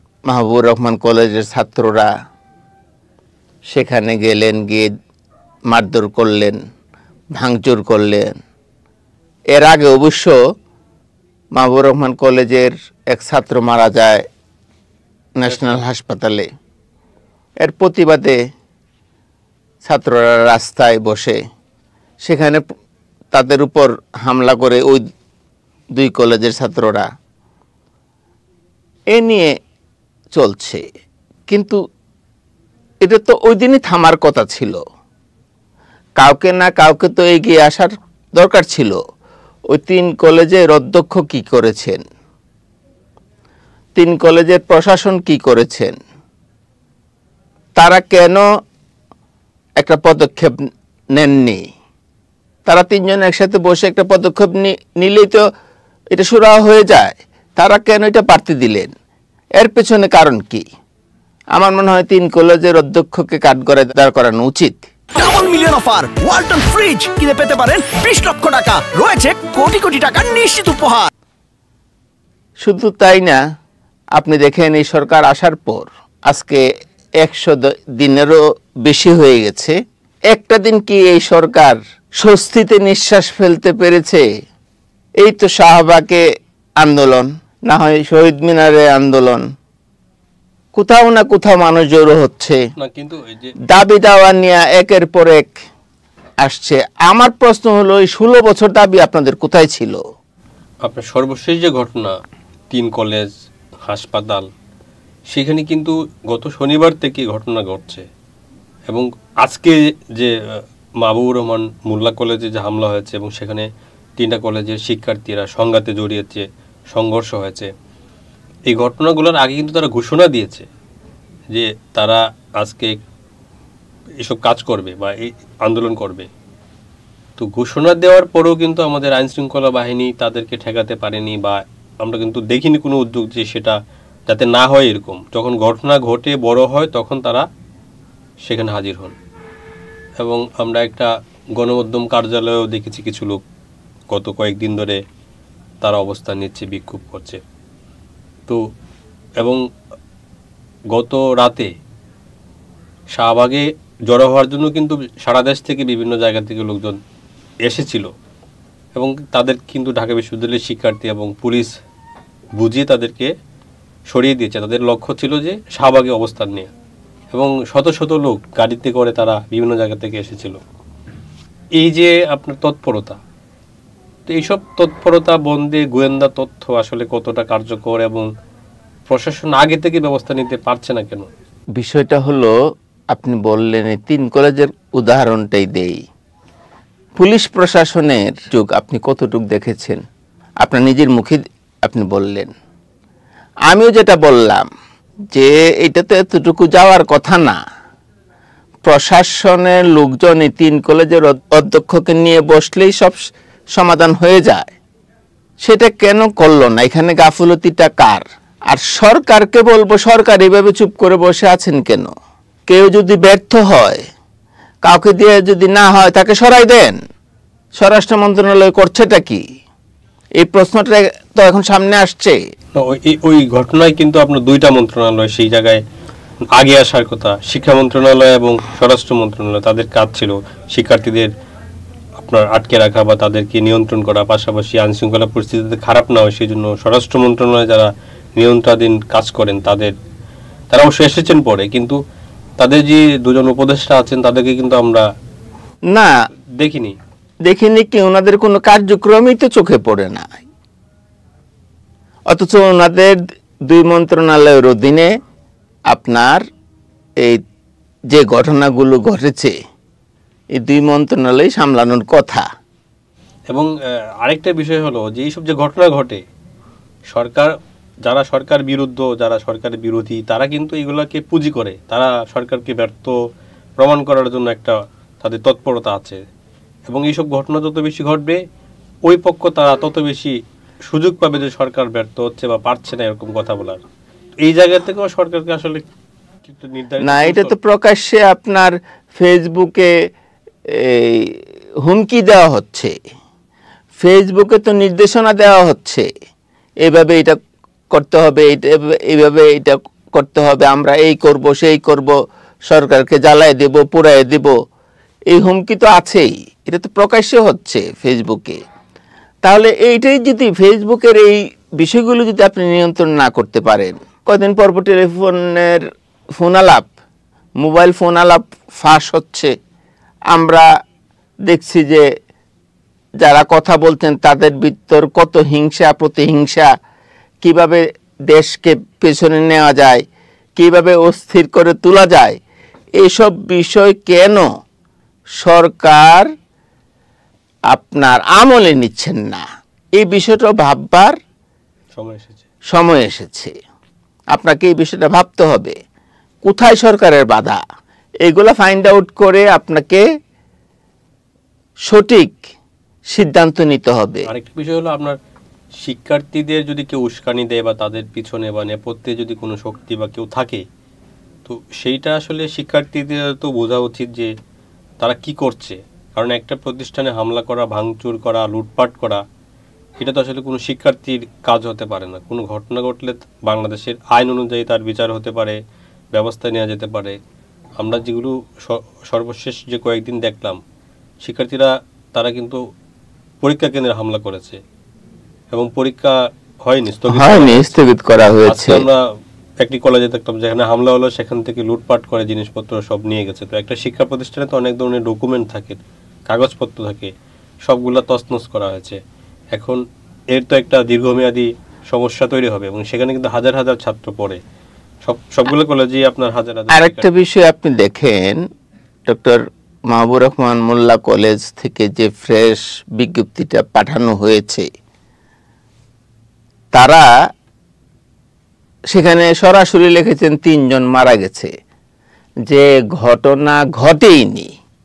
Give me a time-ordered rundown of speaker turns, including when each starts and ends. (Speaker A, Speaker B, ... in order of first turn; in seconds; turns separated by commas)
Speaker A: 0.3-2.1, Speaker A: 3.7-4.9, Speaker A: 5.7-6.6, Speaker A: 7.4-8.3, Speaker A: 9.5-10.4, Speaker A: 11.6-14.2, Speaker A: 15.4-16.5, Speaker B: 15.5-15.8, Speaker A: 17.6-18.4, Speaker A: 19.8-21.4, Speaker A: 22.2-22.6, Speaker A: 23.3-25.0, Speaker A: 26.0-27.0, Speaker A: 29.1-29.5, Speaker A: 30.4-30.8, Speaker A: 31.5-31.8, Speaker A: 33.0-34.8, Speaker A: 36.2-39.0, Speaker A: 39.7-42.0, Speaker A: 44.0-45.9, Speaker A: 47.8-48.4, Speaker A: 49.8-50.5, Speaker A: 51.1-51.6, Speaker A: 52.7-55.4, Speaker A: 56.1-58.9, Speaker A: 59.6-60.6, Speaker A: 61.5-64.9, Speaker C: 65.1-71.1, Speaker A: 72.6-73.4, Speaker A: 74.2-76.6, Speaker A: 77.2-79.8, Speaker A: 80.3-84.2, Speaker A: 85.2-86.2, Speaker A: 86.8-89.4, Speaker A: 90.7-92.6, Speaker B: 92.8-93.5, Speaker A: 93.7-95.5, Speaker A: 96.4-100.0, Speaker B: 100.8-102.1, Speaker B: 102.7-103.3, Speaker B: 103.9-104.5, Speaker B: 105.3-108.0, Speaker B: 108.9-117.7, Speaker B: 118.7-120.7, Speaker B: 121.5-123.0, Speaker B: 124.2-126.3, Speaker B: 127.4-133.8, Speaker B: 134.3-137.4, Speaker B: 138.5-139.1, Speaker B: 140.2-143.4, Speaker B: 144.1-145.0, Speaker B: 145.8-147.4, Speaker B: 150.9-151.7, Speaker B: 153.2-157.0, Speaker B: 157.7-158.1, Speaker B: 158.9-161.7, Speaker B: 162.6-163.3, Speaker B: 164.1-166.7, Speaker B: 167.3-170.6, Speaker B: 171.8-173.2, Speaker B: 174.3-178.3, Speaker B: 179.1-181.3, Speaker A: 181.8-182.5, Speaker A: 183.1-186.0, Speaker A: 187.2-190.0, Speaker A: 190.6-192.5, Speaker A: 193.7-194.7, Speaker A: 195.3-197.6, Speaker A: 198.8-203.2, Speaker A: 203.8-204.7, Speaker A: 205.6-212.1, Speaker A: 212.7-214.0, Speaker A: 214.8-217.0, Speaker A: 217.8-219.4, Speaker A: 220.4-222.4, Speaker B: 222.8-225.8, Speaker B: 226.5-231.3, Speaker B: 232.2-239.9, Speaker B: 240.7-242.0, Speaker B: 242.6-245.0, Speaker B: 246.6-246.9, Speaker A: 247.5-250.3, Speaker A: 252.3-253.2, Speaker A: 253.7-255.1, Speaker A: 255.9-256.4, Speaker A: 258.1-259.5, Speaker A: 260.6-262.4, Speaker B: 264.2-266.2, Speaker B: 267.1-267.5, Speaker B: 268.1-273.2, Speaker B: 273.8-276.2, Speaker B: 276.9-278.4, Speaker B: 279.1-280.3, Speaker B: 280.9-283.8, Speaker B: 284.5-285.8, Speaker B: 286.4-287.6, Speaker A: 287.0-289.9, Speaker A: 290.8-292.9, Speaker A: 294.0-296.1, Speaker A: 296.9-297.4, Speaker A: 297.9-302.1, Speaker A: 302.7-304.5, Speaker A: 305.3-308.6, Speaker A: 309.4-315.8, Speaker A: 316.4-316.9, Speaker A: 317.6-319.5, Speaker A: 320.3-320.6, Speaker A: 321.5-322.1, Speaker A: 323.2-326.7, Speaker A: 327.4-330.0, Speaker A: 330.6-332.4, Speaker A: 333.0-334.5, Speaker A: 335.4-336.3, Speaker A: 337.7-339.4, Speaker A: 340.0-341.1, Speaker B: 341.9-342.4, Speaker A: 342.7-343.5, Speaker A: 344.3-345.7, Speaker A: 346.4-347.6, Speaker A: 348.2-350.0, Speaker A: 351.9-352.4, Speaker A: 353.1-354.3, Speaker B: 354.3-355.2, Speaker B: 355.8-360.6, Speaker B: 361.4-364.3, Speaker B: 365.0-369.2, Speaker B: 370.0-375.6, Speaker B: 376.1-377.2, Speaker B: 377.8-380.6, Speaker B: 381.2-382.6, Speaker B: 383.4-384.6, Speaker B: 385.5-386.1, Speaker B: 386.6-387.7, Speaker A: 387.1-388.8, Speaker B: 388.4-389.0, Speaker B: 389.6-395.8, Speaker B: 396.3-397.1, Speaker B: 397.7-399.0, Speaker B: 399.5-399.8, Speaker B: 400.3-404.4, Speaker B: 405.0-407.1, Speaker A: 406.7-408.4, Speaker A: 409.1-414.6, Speaker A: 416.7-417.1, Speaker A: 418.9-421.5, Speaker A: 422.5-424.5